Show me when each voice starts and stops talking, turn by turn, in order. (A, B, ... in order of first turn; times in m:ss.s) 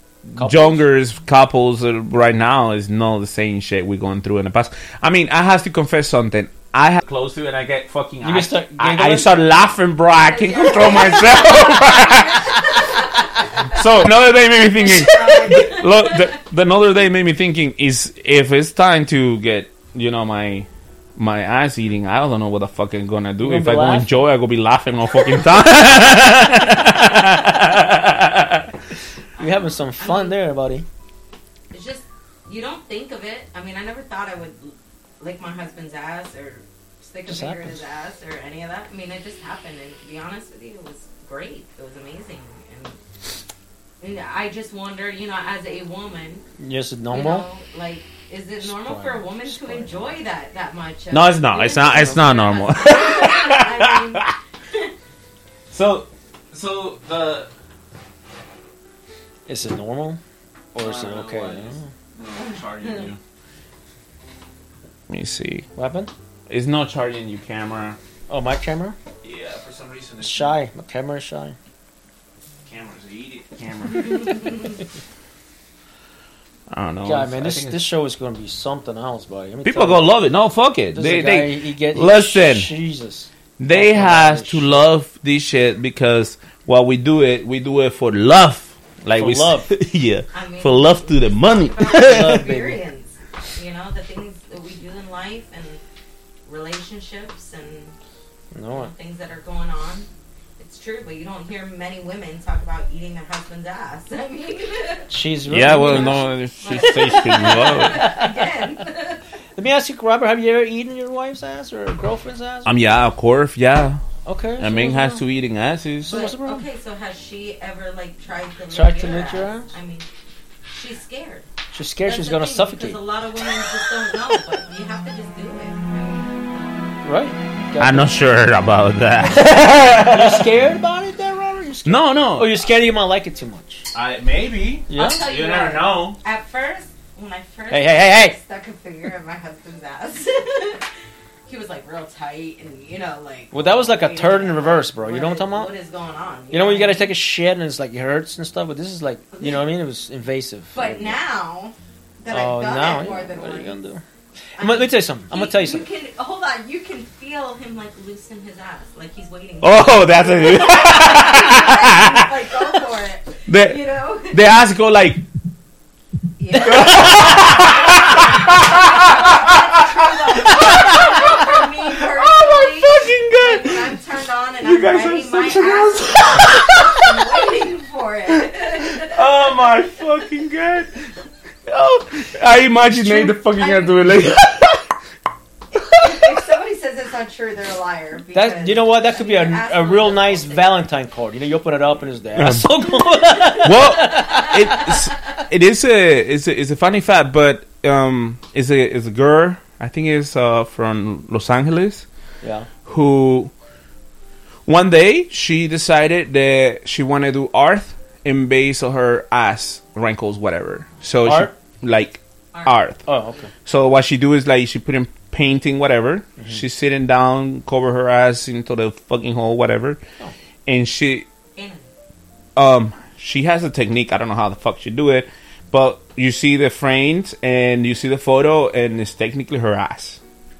0:00.2-0:12.6 A
0:00.4-0:00.8 B
0:08.2-0:09.4 B
0:10.3-0:13.8 C
0:13.7-0:28.7 A
0:14.7-0:16.4 C
0:23.4-0:24.1 B
0:29.4-0:30.4 C
0:29.4-0:30.8 B
0:31.7-0:43.0 C
0:37.3-0:37.8 B
0:44.0-0:46.4 C
0:46.6-0:47.4 B
0:47.1-0:54.9 C
0:48.6-0:50.0 B
0:51.1-0:54.3 A
0:55.7-0:57.5 A
0:59.5-1:00.2 B
1:00.7-1:01.9 B
1:00.7-1:03.2 A
1:05.1-1:05.7 A
1:05.8-1:06.1 B
1:06.5-1:08.0 A
1:08.3-1:09.0 B
1:09.2-1:10.5 A
1:10.2-1:11.6 B
1:12.7-1:14.6 A
1:16.7-1:17.8 A
1:17.0-1:20.1 B
1:19.6-1:22.7 A
1:20.9-1:24.8 B
1:23.6-1:32.5 A
1:29.1-1:29.7 B
1:30.3-1:35.8 C
1:31.9-1:32.8 B
1:36.5-1:37.9 C
1:38.5-1:38.9 B
1:38.7-1:40.1 C
1:40.6-1:45.1 C
1:45.1-1:46.3 B
1:45.5-1:48.1 A
1:45.8-1:49.2 C
1:47.0-1:48.5 B
1:49.6-1:52.9 B
1:52.6-1:54.0 A
1:54.2-1:55.0 B
1:54.6-1:56.2 A
1:54.7-1:55.2 C
1:56.0-1:56.6 B
1:56.1-2:00.0 C
1:58.7-1:59.7 B
2:00.6-2:01.5 C
2:01.7-2:03.8 B
2:02.0-2:07.0 C
2:07.0-2:08.1 B
2:07.8-2:10.4 A
2:09.3-2:13.9 B
2:11.8-2:12.7 A
2:13.9-2:16.2 A
2:14.9-2:15.2 B
2:14.9-2:20.9 C
2:17.7-2:18.4 B
2:21.5-2:27.1 C
2:23.5-2:25.7 B
2:26.5-2:31.2 B
2:29.3-2:29.7 C
2:30.7-2:33.9 C
2:32.3-2:34.0 B
2:34.6-2:35.9 B
2:34.6-2:44.4 C
2:39.6-2:42.2 A
2:43.5-2:45.2 A
2:46.4-2:59.2 C
2:46.6-2:54.0 A
2:54.6-2:57.0 A
2:58.9-3:01.1 A
3:01.6-3:04.8 A
3:02.9-3:04.0 C
3:05.8-3:10.8 C
3:08.3-3:14.9 B
3:12.4-3:12.7 A
3:13.6-3:22.0 A
3:22.4-3:22.7 B
3:22.8-3:23.5 A
3:24.7-3:33.0 A
3:31.2-3:31.5 B
3:32.5-3:32.8 C
3:33.0-3:33.5 B
3:33.6-3:40.0 A
3:40.6-3:41.2 A
3:41.6-3:41.9 C
3:42.6-3:50.2 A